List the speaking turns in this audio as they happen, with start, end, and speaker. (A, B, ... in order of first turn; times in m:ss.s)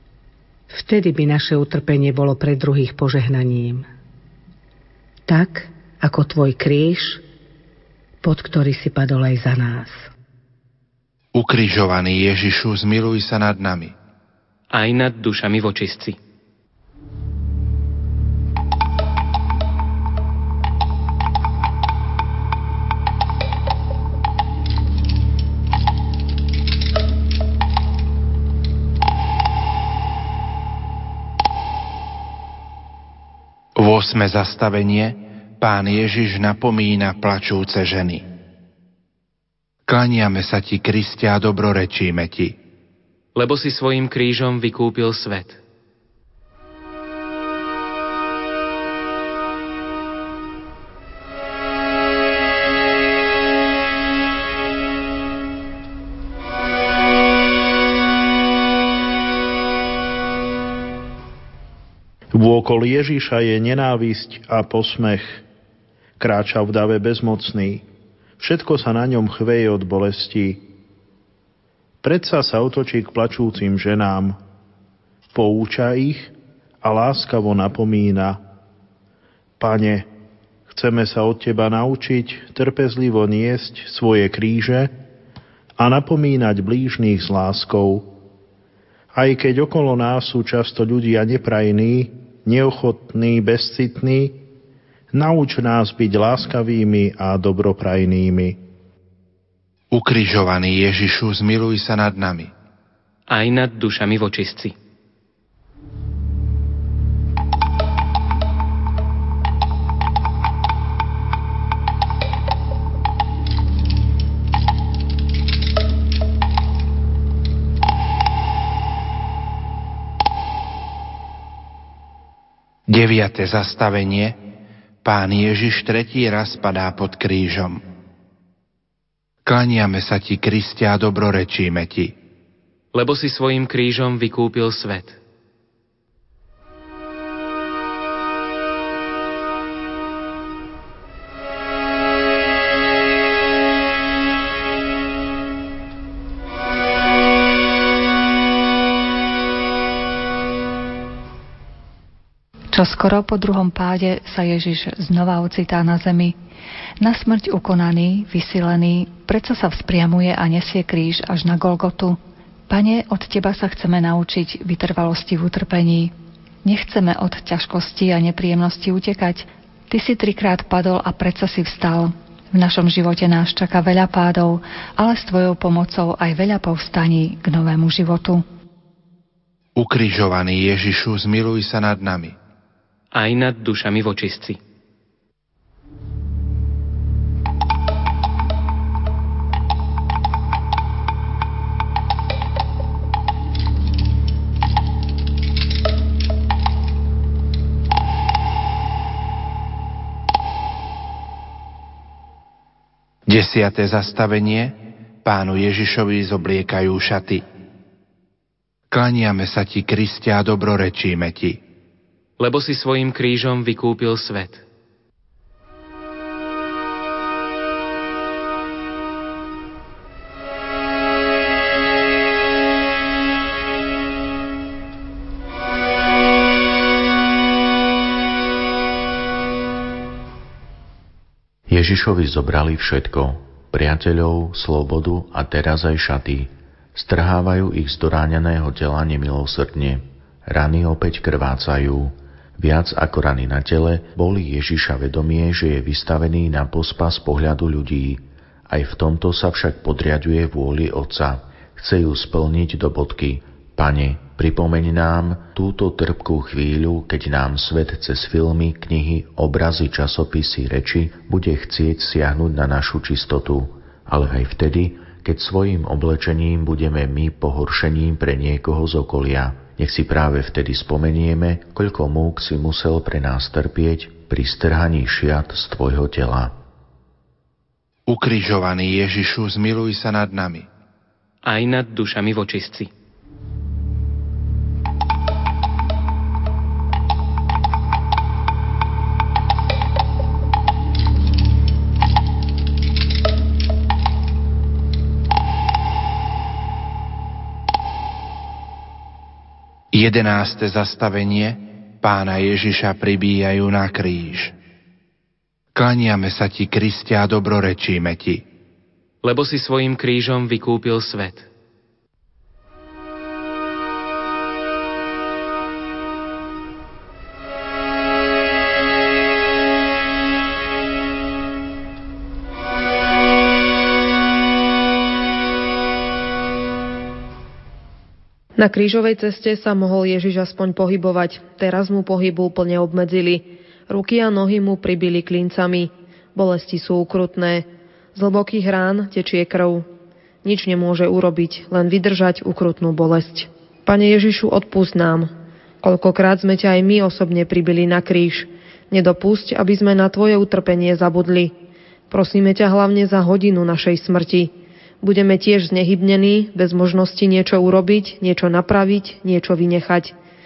0:00.7-0:03.9 A
0:05.3-0:07.2 A
0:08.2-0:10.1 A
0:11.3-0:13.9 B
0:14.7-0:16.2 C
0:33.8-0:38.3 B
0:39.9-0:42.6 B
0:43.3-0:45.6 C
1:02.3-1:05.4 D
1:06.2-1:07.8 D
1:08.4-1:10.6 D
1:12.0-1:14.4 D
1:15.3-1:18.4 D
1:19.6-1:20.1 D
1:20.7-1:24.9 D
1:25.8-1:28.1 D
1:29.1-1:34.4 D
1:35.1-1:38.6 D
1:39.9-1:42.5 B
1:43.3-1:44.7 C
2:02.9-2:04.4 B
2:05.0-2:07.8 B
2:09.4-2:12.1 B
2:12.9-2:15.2 C
2:32.7-2:36.4 E
2:37.0-2:58.4 E
2:59.8-3:02.4 B
3:03.1-3:04.6 C
3:23.3-3:27.4 B
3:28.9-3:31.6 B
3:32.4-3:34.6 C
3:51.7-4:36.6 F
4:38.1-4:40.7 B
4:41.4-4:42.9 C
4:59.9-5:04.5 B
5:05.7-5:08.4 B
5:09.2-5:11.5 C
5:28.6-5:39.8 G
5:40.4-5:45.3 G
5:45.8-5:51.5 G
5:52.1-6:00.1 G